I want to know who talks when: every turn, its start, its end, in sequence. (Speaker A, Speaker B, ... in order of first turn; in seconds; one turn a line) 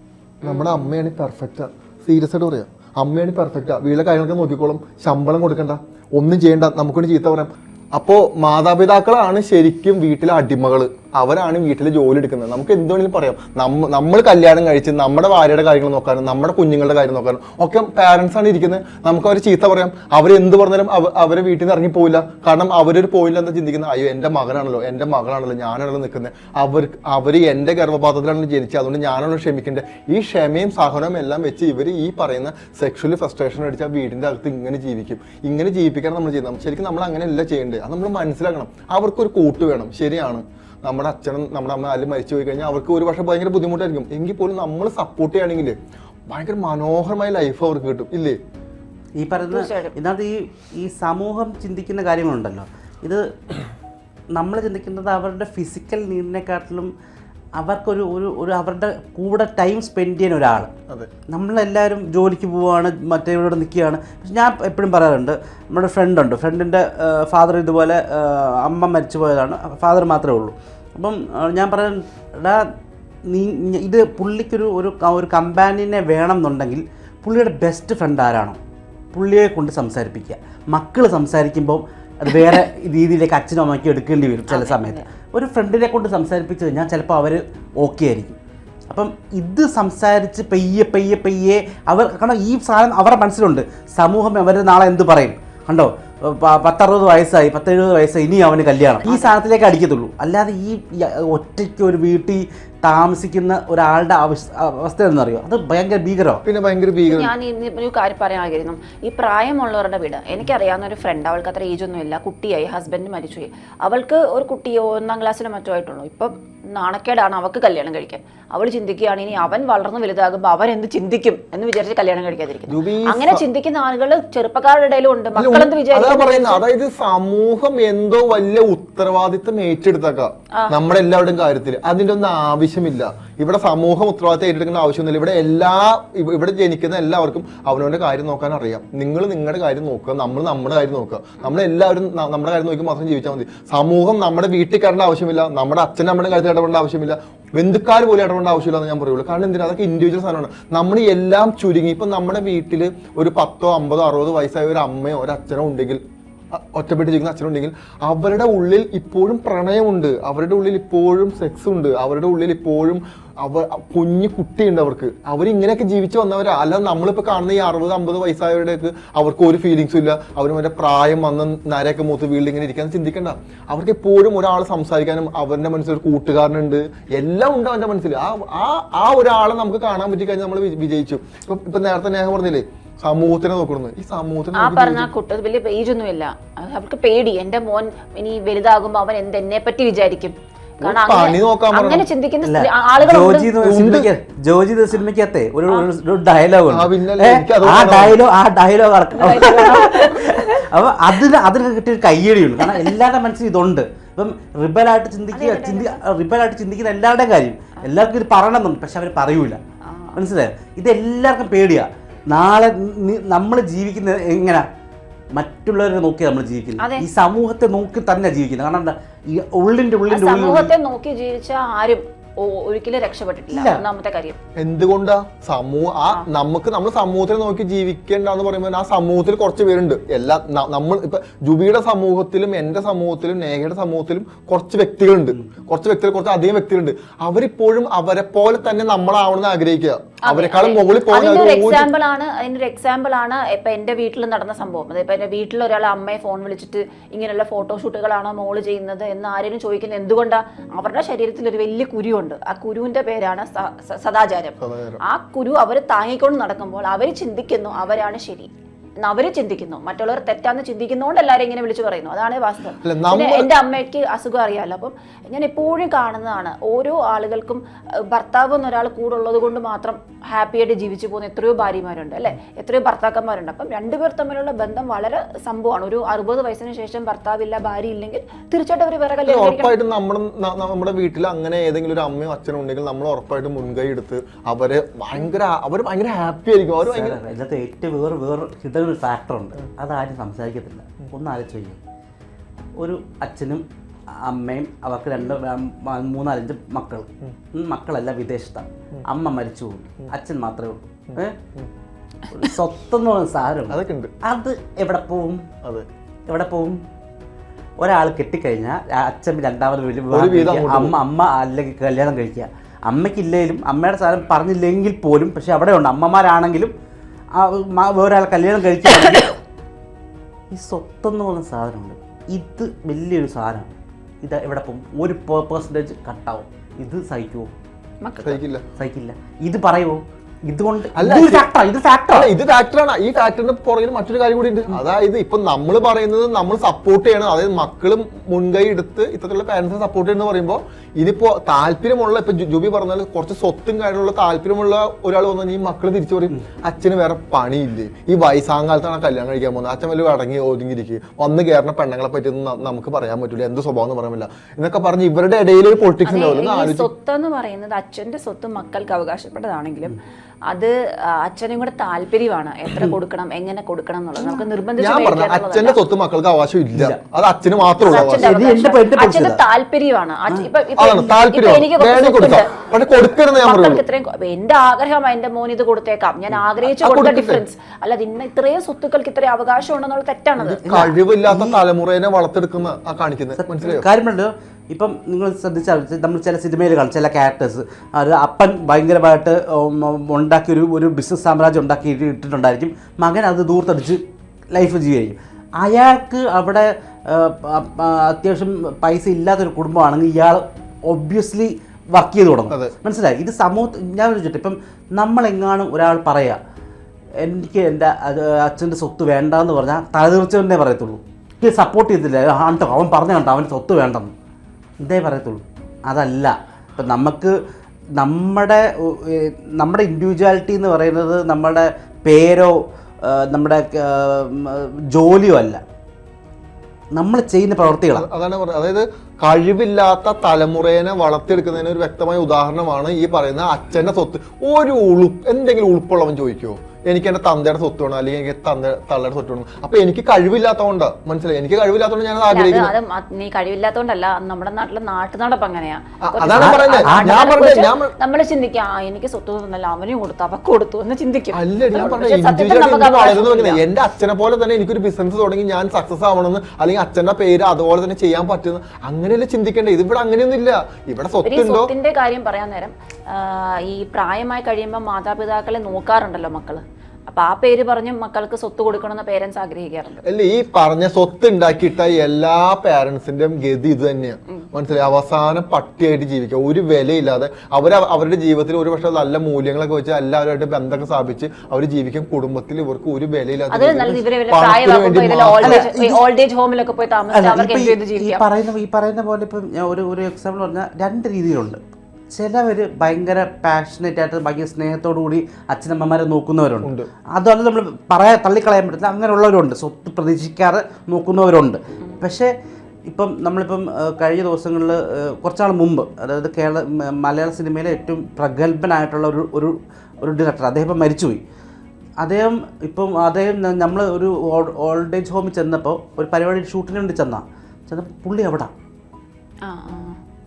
Speaker A: 0.4-45.8
Speaker B: 0.4-0.9
Speaker A: 46.3-48.4
Speaker C: 49.2-53.4
Speaker B: 49.4-50.0
Speaker C: 54.4-56.9
Speaker C: 57.6-60.7
Speaker C: 61.3-72.7
Speaker C: 73.3-78.6
Speaker C: 79.1-88.4
Speaker B: 84.5-85.1
Speaker C: 88.9-106.4
Speaker B: 99.0-99.3
Speaker A: 106.5-107.3
Speaker B: 107.1-126.6
Speaker A: 122.7-123.4
Speaker A: 125.3-185.1
Speaker B: 184.6-193.5
Speaker A: 190.8-192.1
Speaker C: 192.4-209.6
Speaker A: 193.6-194.1
Speaker A: 196.7-198.2
Speaker B: 199.2-200.6
Speaker B: 205.3-206.0
Speaker B: 209.8-210.2
Speaker C: 210.2-214.7
Speaker C: 215.3-220.7
Speaker B: 216.8-217.1
Speaker B: 220.1-224.4
Speaker C: 223.5-223.8
Speaker A: 224.6-241.9
Speaker B: 240.2-258.5
Speaker A: 254.6-255.0
Speaker B: 259.0-279.7
Speaker A: 262.8-263.5
Speaker A: 279.3-287.2
Speaker C: 286.8-291.8
Speaker C: 292.8-301.4
Speaker A: 301.1-301.7
Speaker C: 302.3-305.4
Speaker A: 303.7-304.1
Speaker C: 306.3-306.8
Speaker C: 307.8-316.7
Speaker A: 310.1-311.0
Speaker C: 317.4-319.4
Speaker C: 320.5-323.7
Speaker C: 324.2-327.5
Speaker B: 328.0-328.4
Speaker A: 328.2-328.6
Speaker C: 328.8-332.3
Speaker A: 330.9-331.5
Speaker A: 332.1-356.9
Speaker B: 356.1-360.0
Speaker B: 360.5-365.8
Speaker A: 364.8-368.4
Speaker C: 366.8-367.0
Speaker C: 367.8-369.4
Speaker B: 367.8-372.5
Speaker A: 370.8-373.8
Speaker B: 373.4-380.6
Speaker A: 376.6-377.4
Speaker A: 380.4-383.9
Speaker C: 380.7-381.6
Speaker C: 383.4-406.4
Speaker C: 407.2-414.1
Speaker C: 414.8-417.3
Speaker C: 418.0-425.6
Speaker C: 426.9-428.1
Speaker A: 427.9-442.7
Speaker B: 442.3-453.6
Speaker A: 446.0-447.9
Speaker C: 446.3-447.2
Speaker A: 451.3-461.7
Speaker B: 461.2-470.0
Speaker A: 470.1-485.7
Speaker B: 483.5-488.3
Speaker C: 485.4-486.0
Speaker C: 487.1-491.6
Speaker C: 492.1-502.3
Speaker A: 496.6-496.9
Speaker C: 502.9-511.2
Speaker C: 512.0-518.5
Speaker B: 519.4-520.0